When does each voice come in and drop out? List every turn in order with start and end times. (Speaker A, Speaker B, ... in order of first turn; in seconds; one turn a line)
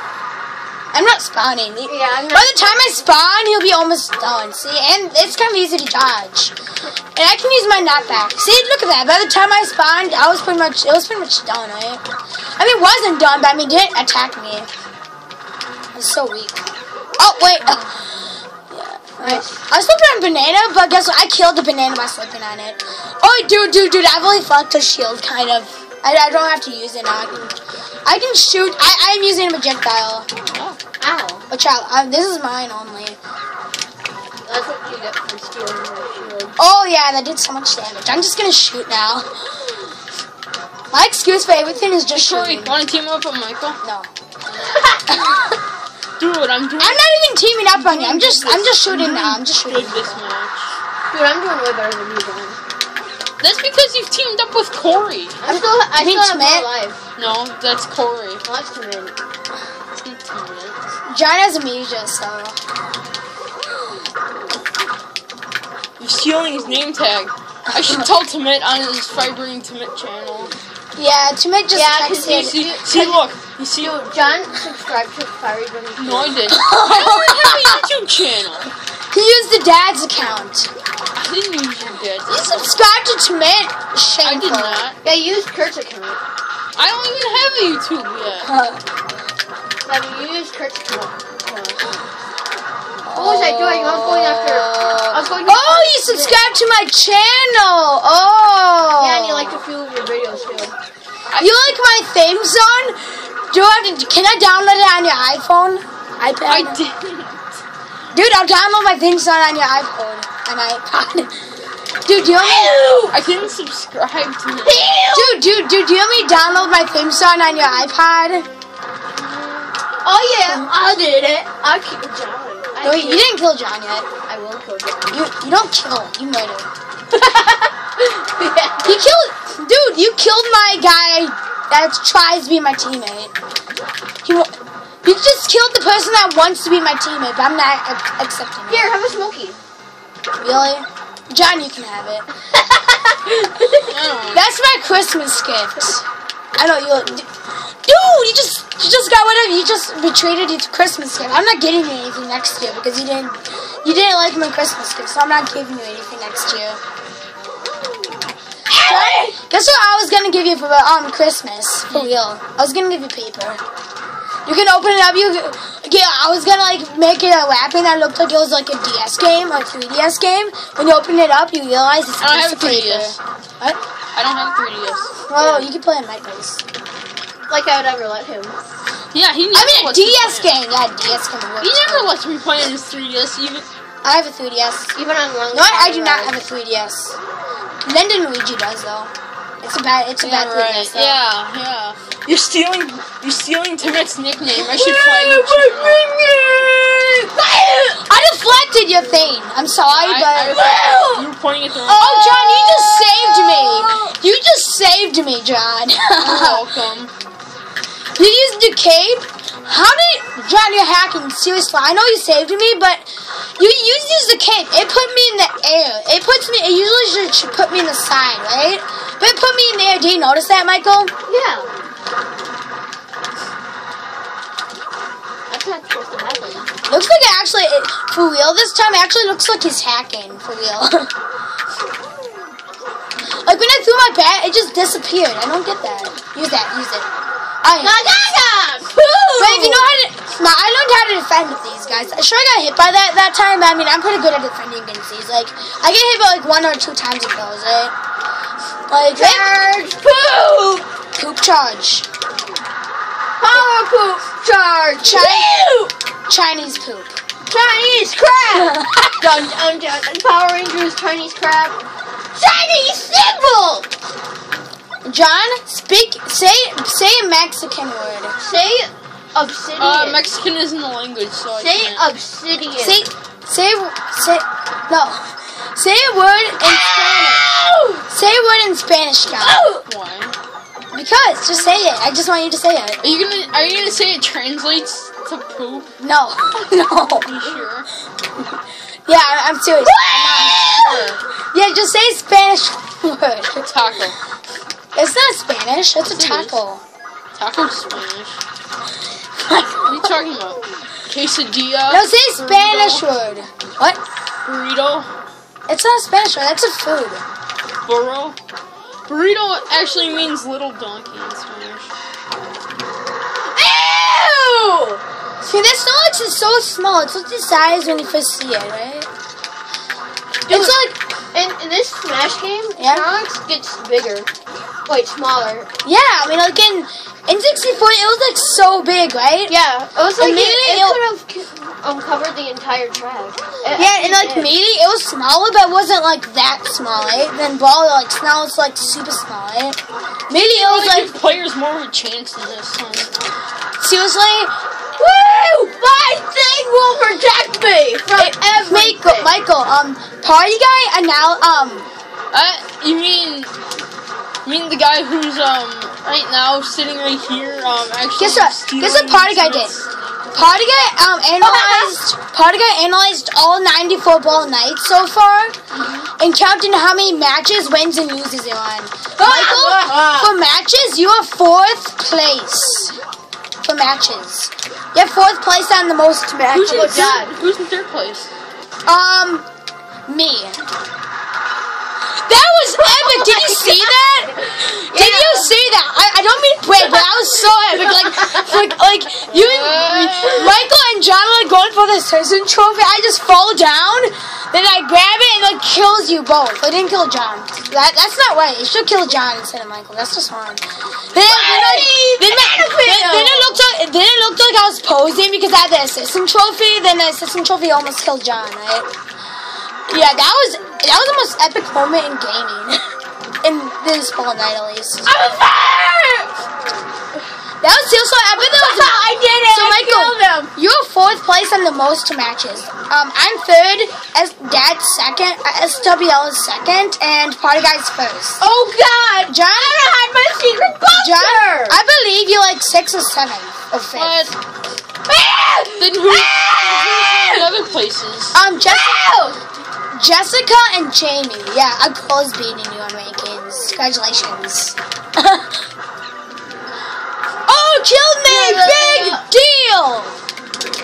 Speaker A: 0.9-6.5
Speaker B: 1.9-3.0
Speaker A: 7.1-12.0
Speaker A: 12.6-14.7
Speaker A: 15.9-16.7
Speaker A: 17.2-18.0
Speaker B: 17.6-17.9
Speaker A: 18.7-27.5
Speaker B: 19.2-19.6
Speaker A: 28.0-30.3
Speaker C: 30.5-30.8
Speaker B: 31.0-31.4
Speaker A: 31.5-33.2
Speaker B: 34.5-36.5
Speaker A: 36.6-39.3
Speaker A: 40.9-42.8
Speaker C: 42.2-43.8
Speaker A: 43.8-44.1
Speaker B: 44.5-45.2
Speaker A: 45.1-45.4
Speaker C: 46.2-47.0
Speaker A: 46.8-50.2
Speaker C: 47.7-50.7
Speaker B: 51.1-52.6
Speaker C: 53.4-55.5
Speaker B: 55.4-57.0
Speaker A: 55.5-56.7
Speaker C: 57.2-58.4
Speaker B: 58.4-59.1
Speaker C: 59.9-60.8
Speaker A: 61.1-62.6
Speaker C: 66.0-70.5
Speaker A: 67.7-68.1
Speaker A: 71.0-72.6
Speaker B: 71.7-73.2
Speaker C: 72.3-74.1
Speaker B: 73.8-76.4
Speaker C: 76.0-78.7
Speaker A: 76.5-77.8
Speaker A: 79.1-80.7
Speaker C: 81.1-82.6
Speaker A: 82.3-84.8
Speaker C: 84.2-85.0
Speaker B: 85.0-86.2
Speaker C: 86.8-88.5
Speaker A: 88.4-88.8
Speaker B: 89.8-92.0
Speaker A: 93.0-99.6
Speaker B: 93.1-96.4
Speaker B: 99.0-100.7
Speaker C: 101.3-101.6
Speaker A: 101.3-106.8
Speaker C: 106.4-107.6
Speaker A: 108.1-111.4
Speaker A: 112.0-112.8
Speaker B: 112.3-113.2
Speaker C: 113.1-115.0
Speaker B: 114.6-115.4
Speaker A: 115.1-118.5
Speaker B: 120.0-123.3
Speaker A: 122.8-124.1
Speaker B: 124.2-125.2
Speaker A: 125.1-126.7
Speaker B: 127.1-129.0
Speaker A: 128.8-133.3
Speaker A: 134.2-138.9
Speaker B: 138.7-139.6
Speaker A: 140.4-142.2
Speaker B: 142.6-143.9
Speaker C: 143.9-144.4
Speaker A: 144.3-146.0
Speaker A: 146.6-147.3
Speaker A: 147.8-156.8
Speaker B: 158.7-159.3
Speaker A: 158.7-163.6
Speaker C: 161.9-162.2
Speaker A: 164.4-173.8
Speaker C: 172.2-173.2
Speaker C: 174.1-175.2
Speaker A: 175.3-176.6
Speaker B: 175.3-175.7
Speaker B: 177.5-178.6
Speaker C: 179.1-180.5
Speaker A: 179.5-182.2
Speaker C: 181.6-183.7
Speaker A: 184.0-184.9
Speaker B: 184.9-186.4
Speaker A: 185.5-187.2
Speaker A: 187.8-191.2
Speaker C: 190.2-196.0
Speaker B: 194.6-198.0
Speaker A: 198.0-200.6
Speaker C: 199.9-202.4
Speaker B: 200.5-201.3
Speaker B: 201.8-204.1
Speaker A: 201.9-206.6
Speaker C: 206.2-207.1
Speaker A: 208.2-221.1
Speaker B: 221.3-221.7
Speaker B: 225.5-226.7
Speaker A: 226.9-231.1
Speaker A: 233.4-237.1
Speaker A: 237.6-238.1
Speaker B: 237.8-239.9
Speaker A: 239.4-247.9
Speaker A: 248.9-249.5
Speaker B: 249.1-250.8
Speaker A: 251.2-252.1
Speaker B: 253.4-255.9
Speaker A: 255.0-255.5
Speaker A: 256.3-257.2
Speaker B: 257.4-261.8
Speaker A: 258.5-259.2
Speaker B: 262.3-263.9
Speaker A: 265.0-268.3
Speaker B: 268.4-270.3
Speaker C: 269.8-272.0
Speaker B: 271.5-273.0
Speaker A: 272.8-277.5
Speaker B: 276.6-278.0
Speaker A: 278.1-279.6
Speaker B: 279.3-279.8
Speaker C: 279.8-280.4
Speaker A: 280.9-283.0
Speaker C: 283.0-285.9
Speaker A: 286.0-287.3
Speaker C: 287.2-287.9
Speaker A: 289.1-293.6
Speaker B: 289.8-291.0
Speaker C: 290.4-291.2
Speaker C: 293.6-294.2
Speaker A: 294.9-296.8
Speaker C: 296.1-296.6
Speaker C: 297.3-298.4
Speaker A: 299.4-300.1
Speaker C: 299.8-303.0
Speaker A: 301.9-304.0
Speaker C: 304.4-305.1
Speaker A: 305.7-307.2
Speaker C: 307.9-308.4
Speaker C: 309.1-311.9
Speaker B: 313.5-315.0
Speaker A: 315.4-319.1
Speaker B: 320.5-324.3
Speaker A: 320.5-321.0
Speaker A: 322.8-323.0
Speaker B: 324.9-325.7
Speaker A: 325.8-329.5
Speaker B: 329.5-334.5
Speaker A: 330.2-331.0
Speaker A: 333.7-341.1
Speaker C: 340.3-343.1
Speaker A: 343.8-344.5
Speaker B: 345.0-349.3
Speaker A: 348.2-351.9
Speaker C: 352.3-353.5
Speaker C: 354.4-360.3
Speaker A: 358.2-359.7
Speaker A: 360.3-365.6
Speaker B: 361.4-361.9
Speaker C: 365.7-366.1
Speaker A: 366.2-372.9
Speaker B: 369.2-370.3
Speaker A: 373.6-377.2
Speaker C: 376.5-378.3
Speaker B: 376.6-377.4
Speaker A: 378.9-379.5
Speaker A: 380.1-380.6
Speaker A: 382.3-408.9
Speaker B: 382.8-385.6
Speaker B: 386.9-387.3
Speaker B: 387.8-388.7
Speaker C: 389.3-390.6
Speaker B: 401.2-403.6
Speaker A: 409.9-412.8
Speaker A: 413.4-415.1
Speaker B: 415.0-416.3
Speaker A: 417.6-428.4
Speaker B: 418.4-420.5
Speaker B: 428.4-431.8
Speaker A: 429.3-429.9
Speaker A: 430.9-434.3
Speaker C: 433.9-434.4
Speaker B: 435.1-437.5
Speaker C: 435.8-438.4
Speaker A: 438.3-439.0
Speaker B: 438.6-439.4
Speaker A: 439.9-445.5
Speaker A: 447.5-450.2
Speaker B: 448.2-449.2